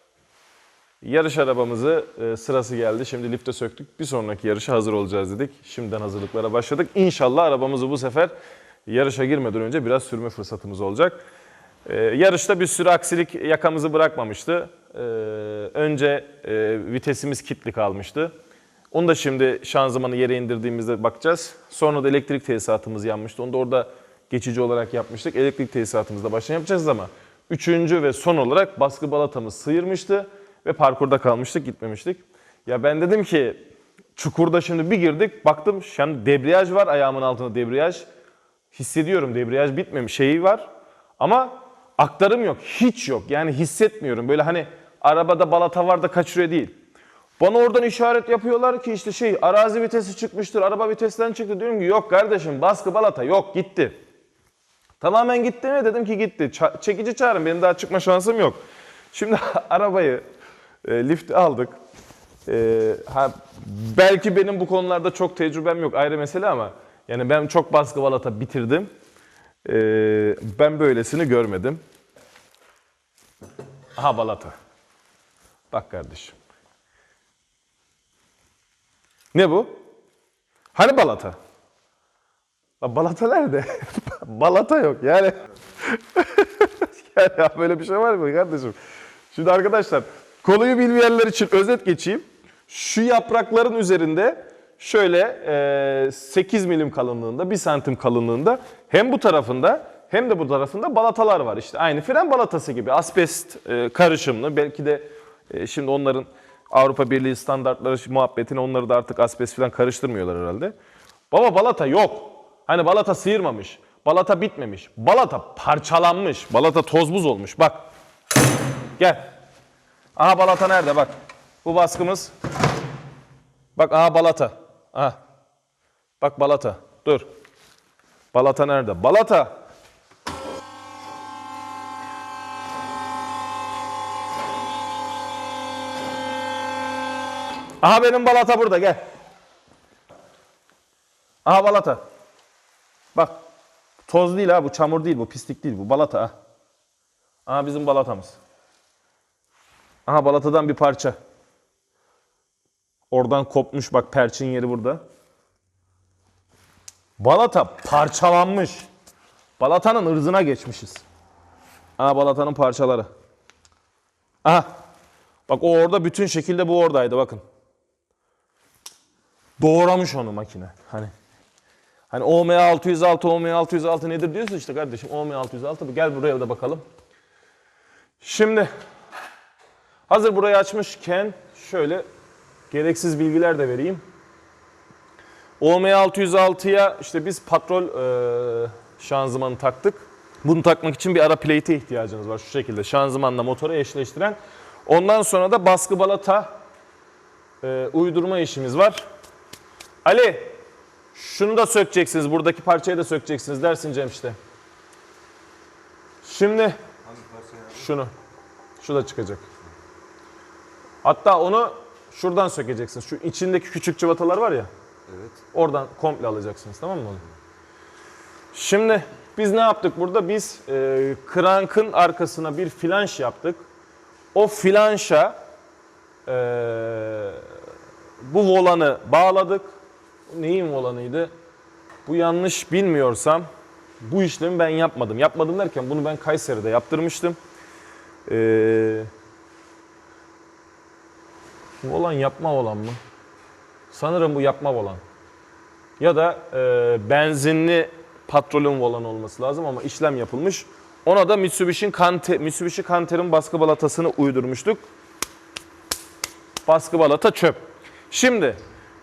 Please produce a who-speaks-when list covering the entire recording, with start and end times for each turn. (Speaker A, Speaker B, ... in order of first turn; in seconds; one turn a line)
Speaker A: 1.0-8.3
Speaker A: 8.9-11.2
Speaker A: 11.9-18.3
Speaker A: 18.9-38.1
Speaker A: 38.7-40.7
Speaker A: 41.2-46.7
Speaker A: 47.4-54.0
Speaker A: 55.0-58.6
Speaker A: 59.1-60.2
Speaker A: 60.8-61.8
Speaker A: 62.5-68.9
Speaker A: 69.7-71.8
Speaker A: 74.0-74.5
Speaker A: 75.7-76.4
Speaker A: 79.3-79.8
Speaker A: 80.7-81.4
Speaker A: 82.8-88.8
Speaker A: 89.3-110.8
Speaker A: 111.3-117.8
Speaker A: 119.0-119.3
Speaker A: 120.2-122.3
Speaker A: 123.8-125.2
Speaker A: 126.2-127.3
Speaker A: 128.3-129.6
Speaker A: 137.8-139.0
Speaker A: 141.4-142.0
Speaker A: 144.1-146.3
Speaker A: 147.5-148.4
Speaker A: 150.1-151.2
Speaker A: 153.1-155.0
Speaker A: 157.2-158.9
Speaker A: 159.6-161.0
Speaker A: 162.0-163.1
Speaker A: 164.4-164.7
Speaker A: 165.5-167.4
Speaker A: 169.6-171.1
Speaker A: 172.1-176.8
Speaker A: 178.2-178.7
Speaker A: 180.1-182.1
Speaker A: 182.7-184.0
Speaker A: 185.6-196.6
Speaker A: 197.6-199.0
Speaker A: 200.1-200.6
Speaker A: 201.1-204.4
Speaker A: 206.2-206.8
Speaker A: 207.6-208.1
Speaker A: 208.8-209.4
Speaker A: 211.0-214.7
Speaker A: 215.4-217.2
Speaker A: 218.5-223.7
Speaker A: 224.3-225.4
Speaker A: 226.3-227.5
Speaker A: 228.2-229.7
Speaker A: 230.3-231.3
Speaker A: 232.1-233.5
Speaker A: 234.0-237.4
Speaker A: 238.3-239.1
Speaker A: 241.8-243.0
Speaker A: 243.9-245.0
Speaker A: 246.0-254.8
Speaker A: 256.6-258.6